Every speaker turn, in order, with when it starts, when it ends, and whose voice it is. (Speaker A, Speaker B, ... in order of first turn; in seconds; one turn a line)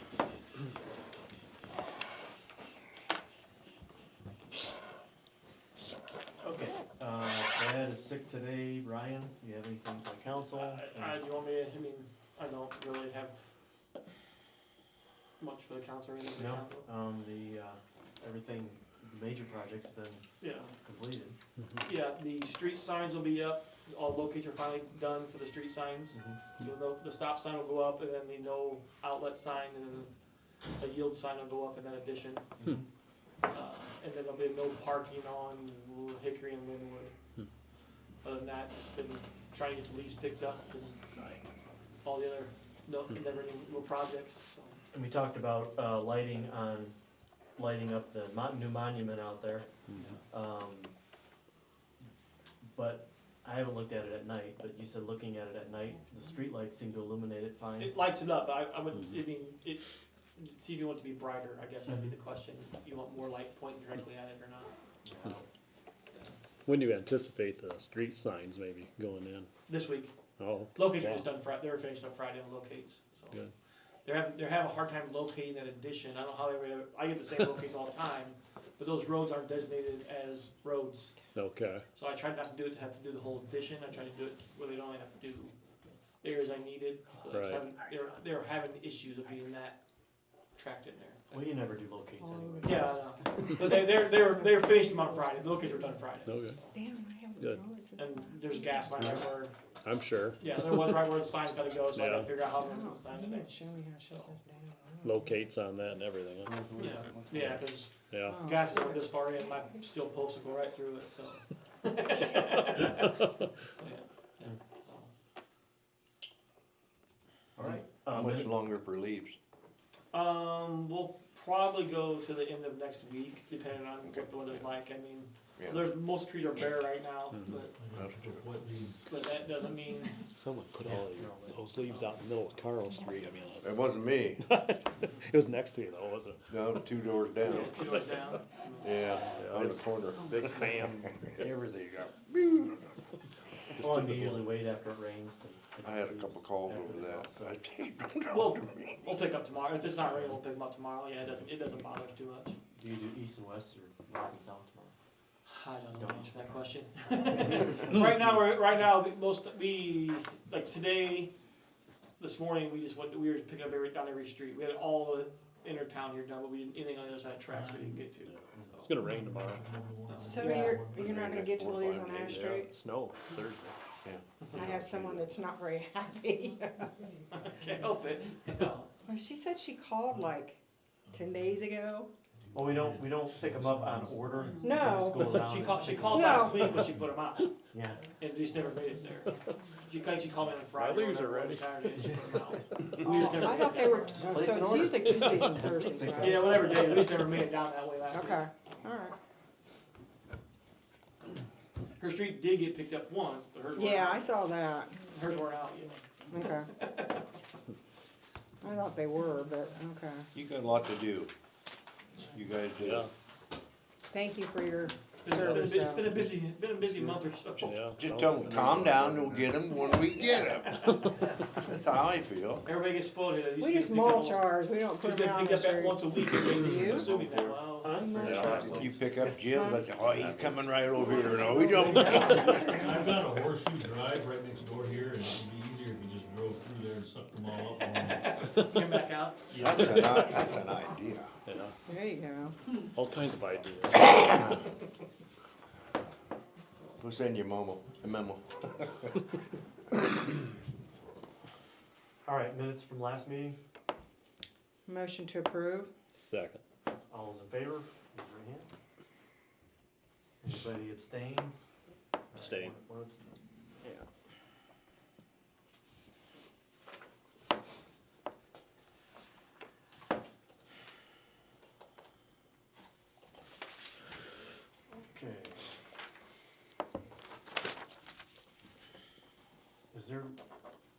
Speaker A: 6.4-11.2
Speaker B: 10.5-13.4
Speaker B: 15.4-16.9
Speaker A: 16.4-20.2
Speaker B: 20.4-20.7
Speaker A: 20.8-21.4
Speaker B: 21.8-30.1
Speaker A: 26.1-26.4
Speaker B: 30.8-32.4
Speaker A: 32.6-32.8
Speaker B: 33.5-37.1
Speaker B: 38.2-41.0
Speaker C: 41.1-41.4
Speaker B: 42.0-44.8
Speaker A: 44.9-47.0
Speaker A: 47.5-49.7
Speaker C: 49.9-50.1
Speaker B: 49.9-50.2
Speaker A: 50.3-50.9
Speaker A: 52.6-58.0
Speaker B: 57.8-59.8
Speaker B: 60.4-64.7
Speaker A: 61.9-62.1
Speaker A: 65.0-65.4
Speaker C: 66.7-69.5
Speaker B: 69.7-70.1
Speaker C: 70.4-71.3
Speaker B: 70.7-73.3
Speaker B: 74.0-81.1
Speaker C: 81.3-81.8
Speaker B: 81.9-85.5
Speaker B: 86.2-89.8
Speaker C: 87.3-87.7
Speaker B: 90.5-91.2
Speaker A: 91.3-93.0
Speaker D: 92.2-93.0
Speaker B: 92.6-96.3
Speaker D: 94.2-95.5
Speaker C: 96.2-96.6
Speaker D: 96.7-98.9
Speaker C: 97.4-97.6
Speaker B: 98.0-99.5
Speaker C: 99.8-100.7
Speaker B: 100.4-103.5
Speaker C: 101.9-102.3
Speaker D: 102.5-105.3
Speaker C: 105.0-106.6
Speaker E: 106.5-107.6
Speaker B: 106.8-115.1
Speaker C: 108.1-108.4
Speaker D: 108.3-108.8
Speaker E: 117.6-119.4
Speaker A: 117.6-118.5
Speaker B: 120.1-127.7
Speaker E: 124.0-124.4
Speaker E: 125.6-125.9
Speaker C: 127.3-127.6
Speaker F: 127.8-129.1
Speaker E: 127.9-128.4
Speaker B: 129.1-130.1
Speaker C: 130.3-133.8
Speaker A: 130.8-132.2
Speaker E: 133.6-134.4
Speaker C: 134.4-136.6
Speaker E: 136.5-137.7
Speaker B: 137.4-138.9
Speaker C: 137.5-138.1
Speaker E: 138.8-142.8
Speaker C: 139.1-141.2
Speaker C: 143.7-144.5
Speaker A: 143.8-147.6
Speaker E: 145.8-149.1
Speaker B: 148.3-152.6
Speaker A: 152.7-154.9
Speaker B: 155.4-161.3
Speaker A: 155.9-156.5
Speaker A: 157.2-158.2
Speaker B: 162.2-168.9
Speaker F: 167.5-168.0
Speaker C: 168.2-169.6
Speaker A: 168.5-168.8
Speaker F: 169.0-171.2
Speaker B: 170.1-170.8
Speaker D: 170.2-172.7
Speaker E: 170.9-172.7
Speaker C: 172.2-173.8
Speaker E: 174.0-175.3
Speaker D: 174.6-176.9
Speaker B: 177.3-178.9
Speaker D: 179.0-180.6
Speaker F: 181.1-181.5
Speaker D: 181.1-182.1
Speaker F: 182.4-185.1
Speaker A: 182.5-186.8
Speaker D: 184.6-185.3
Speaker B: 185.2-187.5
Speaker D: 186.1-186.7
Speaker F: 186.7-187.2
Speaker A: 187.7-188.0
Speaker B: 188.2-194.4
Speaker C: 190.7-192.0
Speaker D: 193.0-196.6
Speaker A: 194.0-197.0
Speaker B: 196.2-198.4
Speaker D: 198.1-199.1
Speaker B: 202.0-204.3
Speaker D: 203.7-205.1
Speaker B: 205.0-207.2
Speaker D: 206.3-206.7
Speaker D: 208.6-210.3
Speaker E: 210.3-211.3
Speaker E: 212.2-213.1
Speaker C: 212.8-213.1
Speaker D: 214.1-216.2
Speaker B: 215.2-217.8
Speaker A: 216.8-217.2
Speaker C: 217.6-219.4
Speaker E: 217.6-222.6
Speaker A: 218.8-219.5
Speaker B: 222.6-228.0
Speaker D: 223.6-227.1
Speaker E: 227.0-227.6
Speaker A: 227.8-229.4
Speaker D: 227.9-229.9
Speaker C: 228.2-228.9
Speaker E: 228.2-232.7
Speaker D: 231.0-233.2
Speaker F: 232.2-238.4
Speaker B: 238.6-239.5
Speaker F: 239.5-239.8
Speaker E: 239.5-241.3
Speaker C: 239.6-240.3
Speaker C: 241.4-241.7
Speaker D: 241.9-242.6
Speaker C: 242.8-244.6
Speaker E: 247.0-249.2
Speaker A: 252.2-253.6
Speaker D: 254.8-255.9
Speaker C: 256.1-256.6
Speaker A: 257.1-258.7
Speaker A: 260.4-261.6
Speaker A: 262.3-263.3
Speaker C: 262.3-262.7
Speaker A: 274.9-275.7
Speaker A: 279.9-280.4